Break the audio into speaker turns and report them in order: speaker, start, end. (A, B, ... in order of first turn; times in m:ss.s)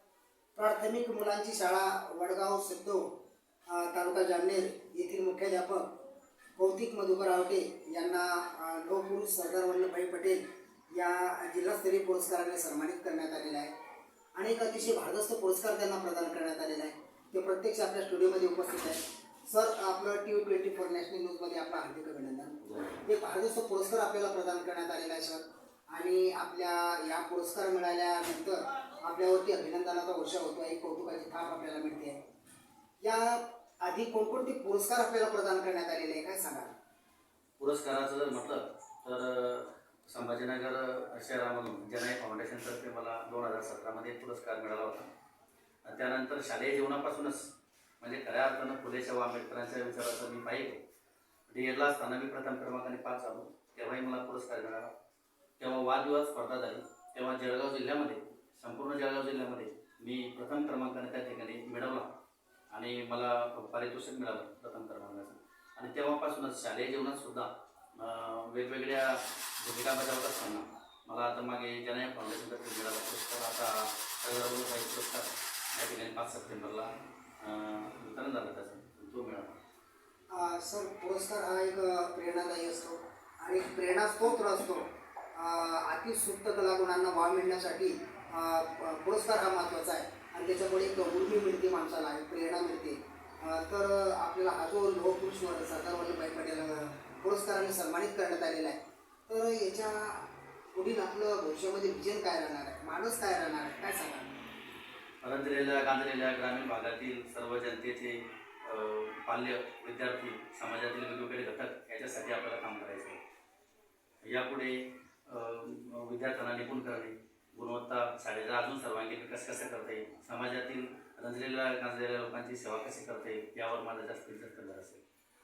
0:00.6-0:03.0 A
0:03.7-0:05.9 A
0:06.6-0:13.7 A
0:14.4-0:32.2 A
0:22.6-0:23.0 B
0:33.0-0:36.7 A
0:37.6-0:45.1 B
0:45.8-0:47.5 B
0:48.0-0:50.8 B
0:51.5-0:54.9 B
0:55.6-1:02.1 B
1:02.7-1:19.6 B
1:20.3-1:44.4 A
1:45.2-1:53.2 B
1:54.2-2:05.0 B